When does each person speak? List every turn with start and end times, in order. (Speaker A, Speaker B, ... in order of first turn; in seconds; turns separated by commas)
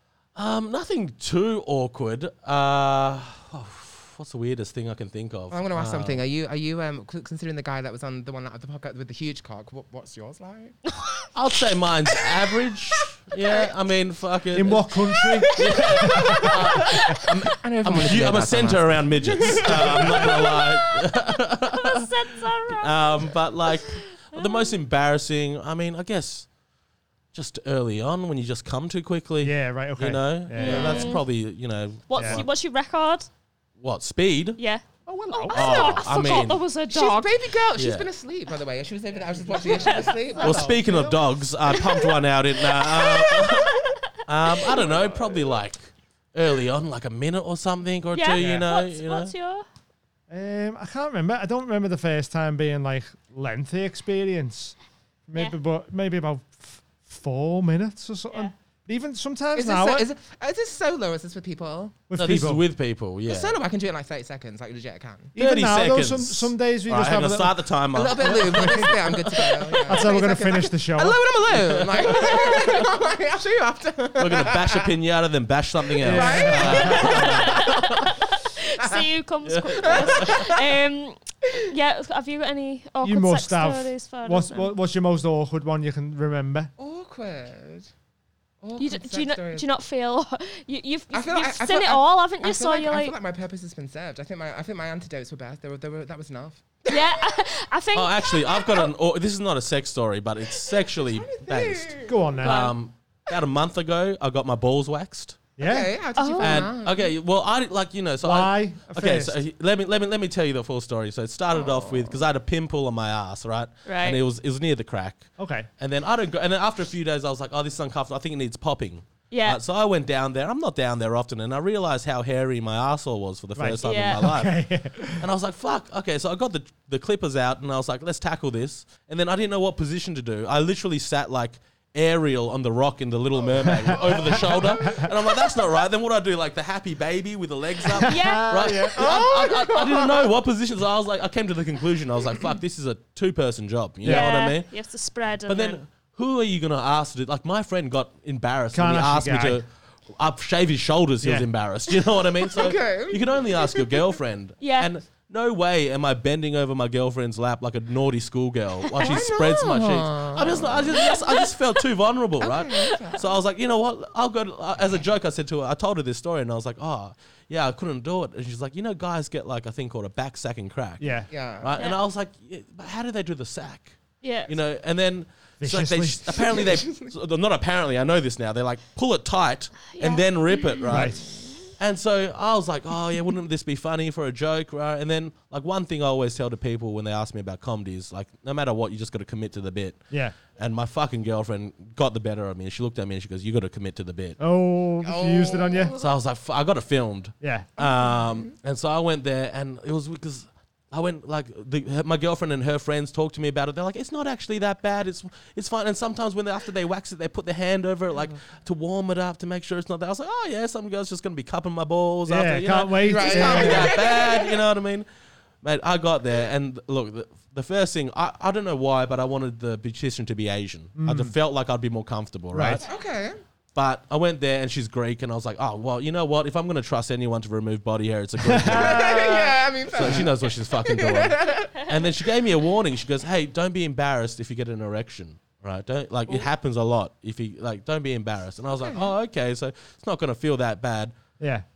Speaker A: 0.3-6.2, Speaker B: 5.5-10.8, Speaker A: 11.3-14.8, Speaker C: 14.5-16.5, Speaker B: 15.5-20.6, Speaker A: 15.5-22.1, Speaker D: 20.3-21.1, Speaker D: 21.7-23.3, Speaker A: 22.7-26.5, Speaker D: 23.9-24.7, Speaker A: 27.3-32.5, Speaker C: 29.4-30.8, Speaker D: 30.6-31.2, Speaker B: 30.6-31.2, Speaker D: 32.1-33.3, Speaker C: 32.1-32.4, Speaker A: 33.8-34.6, Speaker D: 34.6-37.3, Speaker C: 35.1-36.0, Speaker A: 35.5-36.6, Speaker B: 36.9-40.8, Speaker A: 37.8-38.1, Speaker D: 39.6-40.7, Speaker A: 40.3-49.3, Speaker C: 40.4-41.1, Speaker D: 41.7-44.0, Speaker D: 44.5-45.1, Speaker D: 48.1-49.6, Speaker C: 48.4-48.6, Speaker C: 50.3-54.8, Speaker C: 55.3-60.1, Speaker B: 59.5-62.0, Speaker C: 62.1-62.6, Speaker A: 62.2-63.6, Speaker B: 63.2-65.3, Speaker C: 65.3-69.0, Speaker A: 65.3-69.4, Speaker B: 67.9-74.9, Speaker C: 69.8-71.2, Speaker A: 71.5-72.6, Speaker A: 74.2-78.1, Speaker C: 76.0-77.2, Speaker B: 76.0-77.9, Speaker D: 76.6-84.7, Speaker B: 78.8-79.0, Speaker A: 79.4-80.5, Speaker B: 79.8-80.8, Speaker C: 83.0-86.7, Speaker B: 86.8-87.9, Speaker B: 88.6-89.7, Speaker D: 88.8-93.1, Speaker B: 91.1-97.4, Speaker D: 96.9-98.8, Speaker A: 97.9-105.4, Speaker B: 100.7-102.2, Speaker C: 102.0-102.7, Speaker D: 102.4-102.7, Speaker C: 105.6-105.9, Speaker B: 105.6-107.1, Speaker D: 106.2-106.7, Speaker A: 106.4-124.5, Speaker C: 108.2-109.3, Speaker B: 111.7-112.0, Speaker D: 113.8-114.2, Speaker C: 115.4-115.7, Speaker D: 119.3-119.6, Speaker C: 123.5-125.3, Speaker D: 123.8-124.3, Speaker A: 125.1-144.7, Speaker C: 133.6-135.1, Speaker B: 134.4-135.1, Speaker D: 138.0-138.8, Speaker C: 138.0-139.0, Speaker B: 138.9-140.3, Speaker C: 144.0-144.3, Speaker D: 144.1-145.8, Speaker A: 145.5-181.2, Speaker C: 148.7-149.6, Speaker C: 151.2-151.5, Speaker B: 152.5-154.2, Speaker D: 154.6-154.9, Speaker B: 159.0-161.0, Speaker D: 160.9-161.5, Speaker B: 162.4-163.3, Speaker C: 171.0-171.3, Speaker B: 171.3-171.7, Speaker D: 174.2-174.5, Speaker C: 175.6-176.4, Speaker B: 176.3-177.1, Speaker D: 179.9-180.6, Speaker C: 180.9-181.2, Speaker B: 180.9-181.5, Speaker A: 181.8-194.4, Speaker C: 194.4-195.9, Speaker B: 195.0-196.1, Speaker A: 196.0-215.1, Speaker C: 197.4-197.7, Speaker B: 197.8-198.4, Speaker C: 212.3-213.9, Speaker B: 213.0-214.6, Speaker A: 215.6-222.8, Speaker C: 221.0-221.3, Speaker C: 222.5-222.8, Speaker B: 222.8-223.4, Speaker A: 223.7-241.2, Speaker C: 228.4-229.1, Speaker B: 228.6-231.9, Speaker B: 238.8-239.1, Speaker C: 241.4-241.6